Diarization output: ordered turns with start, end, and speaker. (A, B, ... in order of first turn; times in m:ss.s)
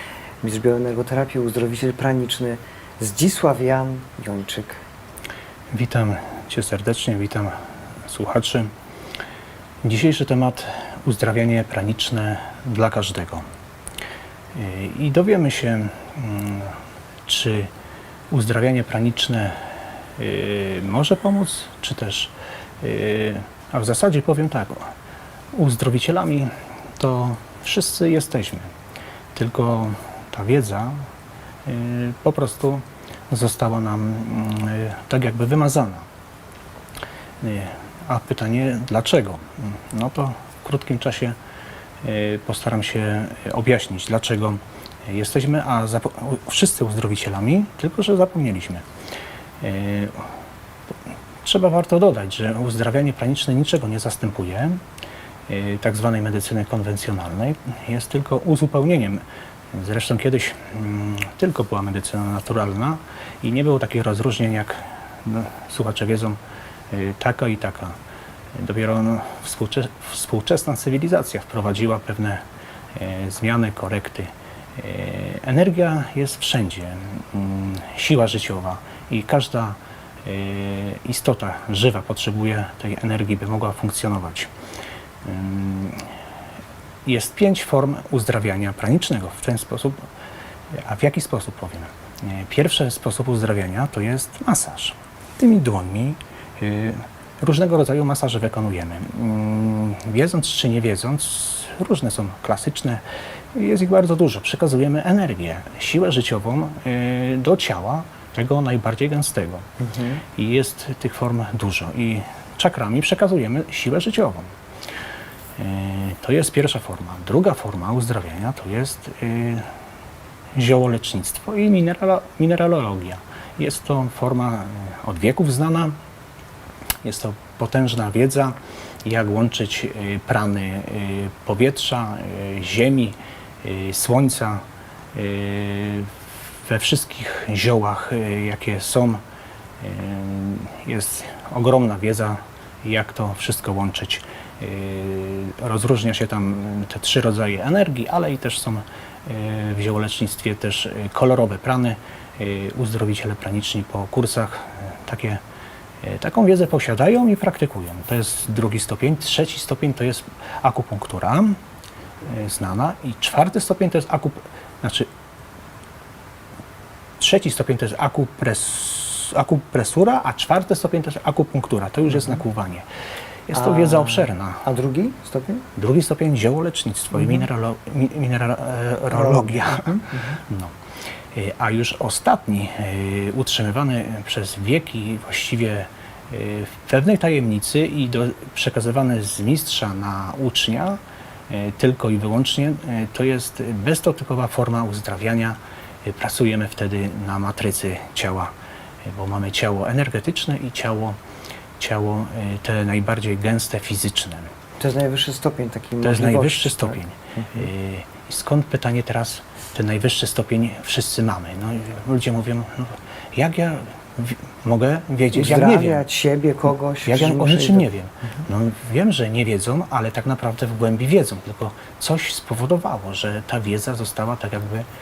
0:00.4-0:04.8 A
0:05.7-0:08.7 B
0:09.8-0:13.5 B
0:14.5-0:17.7 B
0:18.3-0:24.9 B
0:25.5-0:28.7 B
0:29.3-0:31.0 B
0:31.6-0:36.1 B
0:37.4-0:41.4 B
0:42.0-0:48.8 B
0:49.6-0:50.2 B
0:51.4-0:54.8 B
0:55.5-1:06.4 B
1:06.9-1:08.0 B
1:08.6-1:24.5 B
1:25.2-1:26.1 B
1:27.0-1:30.1 B
1:30.7-1:43.0 B
1:43.5-1:49.7 B
1:49.8-1:50.2 A
1:50.4-1:54.5 B
1:55.6-1:59.7 B
2:00.5-2:06.0 B
2:07.0-2:14.6 B
2:15.1-2:16.1 B
2:16.7-2:19.2 B
2:19.8-2:35.4 B
2:36.0-2:41.6 B
2:42.2-2:45.1 B
2:47.2-2:52.9 B
2:53.5-2:54.6 B
2:53.6-2:55.6 A
2:55.8-3:00.7 B
2:59.1-3:00.3 A
3:01.3-3:18.5 B
3:19.0-3:21.2 B
3:21.8-3:24.5 B
3:24.8-3:27.6 A
3:26.0-3:36.0 B
3:35.3-3:37.9 A
3:37.0-3:44.9 B